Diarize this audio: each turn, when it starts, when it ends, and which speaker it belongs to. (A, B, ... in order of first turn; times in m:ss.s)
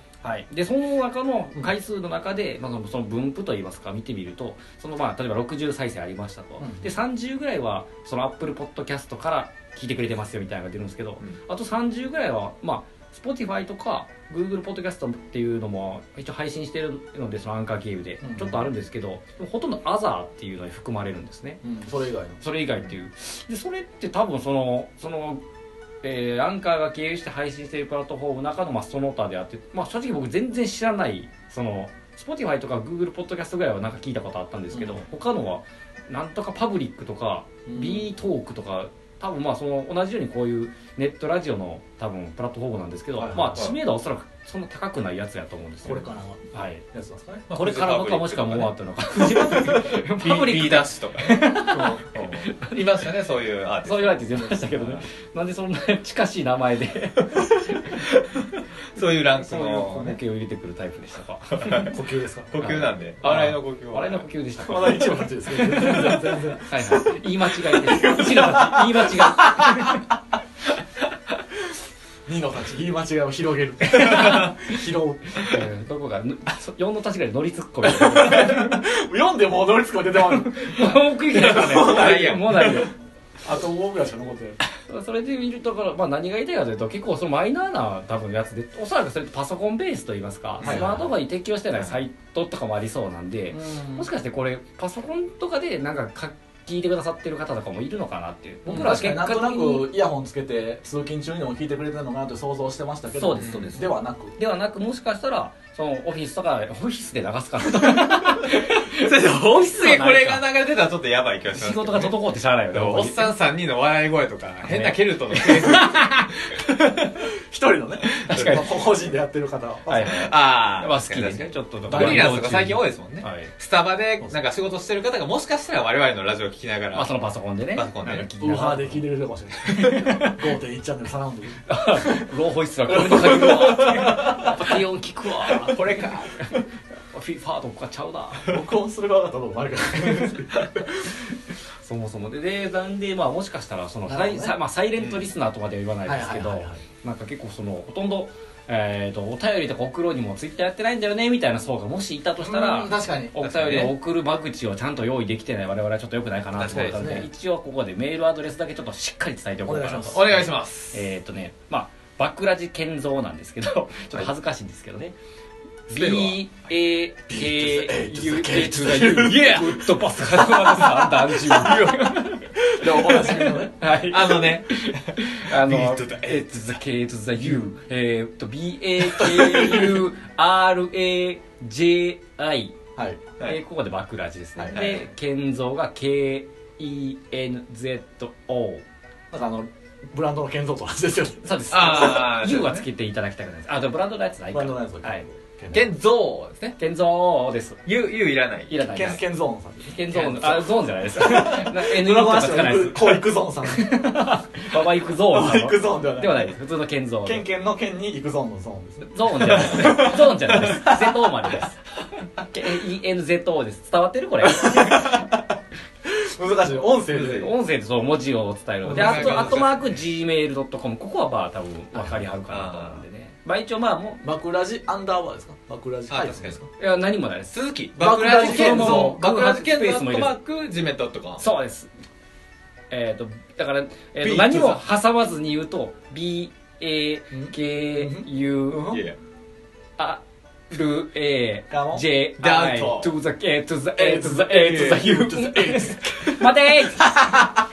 0:00.2-0:21.6 A
0:06.6-0:06.9 B
0:18.2-0:18.7 B
0:21.6-0:22.4 B
0:22.4-0:25.4 A
0:26.0-0:46.8 A
0:34.7-0:35.0 B
0:37.6-0:38.1 B
0:43.2-0:43.7 B
0:45.8-0:47.4 B
0:47.5-0:55.0 C
0:47.5-0:52.8 A
0:51.7-0:52.0 B
0:53.8-0:58.0 A
0:58.0-0:58.3 C
0:58.9-1:00.2 C
0:59.4-1:01.9 A
1:01.5-1:01.9 C
1:01.9-1:02.6 B
1:02.5-1:04.2 C
1:02.6-1:10.0 A
1:04.6-1:07.0 B
1:07.8-1:09.8 B
1:12.3-1:15.4 B
1:13.9-1:14.6 A
1:14.1-1:14.4 C
1:15.4-1:18.8 A
1:17.8-1:22.8 B
1:20.2-1:22.9 A
1:21.3-1:22.9 C
1:23.4-1:24.6 B
1:24.9-1:39.9 A
1:30.6-1:30.9 C
1:30.6-1:31.1 B
1:33.5-1:34.1 B
1:38.6-1:44.4 B
1:43.2-1:50.4 A
1:43.4-1:43.7 C
1:48.4-1:52.2 C
1:51.5-1:53.2 A
1:52.7-1:56.1 C
1:54.6-1:56.3 A
1:57.3-2:00.2 B
1:58.2-1:58.7 C
1:58.2-1:58.7 A
1:59.9-2:03.5 A
2:00.0-2:07.1 C
2:01.9-2:02.5 B
2:06.9-2:09.0 A
2:07.7-2:08.3 C
2:08.4-2:12.2 B
2:09.7-2:10.4 A
2:11.7-2:18.5 A
2:12.9-2:14.6 B
2:15.4-2:16.6 C
2:18.5-2:21.1 B
2:21.8-2:45.1 A
2:24.1-2:24.6 B
2:25.0-2:25.3 C
2:26.0-2:26.8 B
2:32.4-2:33.4 B
2:33.4-2:33.9 C
2:36.6-2:37.0 C
2:36.7-2:37.3 B
2:39.6-2:40.5 B
2:40.1-2:41.0 C
2:45.9-3:02.8 A
2:45.9-2:46.4 B
2:47.3-2:52.0 B
2:52.6-2:53.8 B
2:54.1-2:56.6 C
2:59.0-3:00.0 B
3:03.0-3:03.3 B
3:03.4-3:08.8 A
3:04.6-3:04.8 B
3:04.7-3:05.0 C
3:09.3-3:11.8 B
3:11.4-3:15.2 A
3:11.7-3:12.8 C
3:14.5-3:15.9 B
3:15.7-3:16.7 C
3:16.8-3:17.8 A
3:17.8-3:18.7 C
3:18.7-3:19.2 A
3:18.8-3:26.5 B
3:19.9-3:27.4 A
3:27.2-3:31.3 B
3:29.0-3:31.8 A
3:32.4-3:35.2 A
3:34.6-3:35.3 B
3:36.0-3:37.5 B
3:37.1-3:37.5 C
3:37.2-3:44.2 A
3:38.8-3:39.6 B
3:38.9-3:40.0 C
3:42.4-3:43.0 C
3:44.2-3:46.6 B
3:46.1-3:46.7 C
3:46.8-3:50.3 A
3:47.5-3:51.4 C
3:48.0-3:49.2 B
3:51.4-3:51.9 A
3:52.9-3:59.0 A
3:54.2-3:54.8 B
3:57.3-3:59.0 B
3:58.8-3:59.2 C
4:00.0-4:07.5 A
4:01.7-4:02.0 B
4:02.4-4:03.1 C
4:04.0-4:07.5 B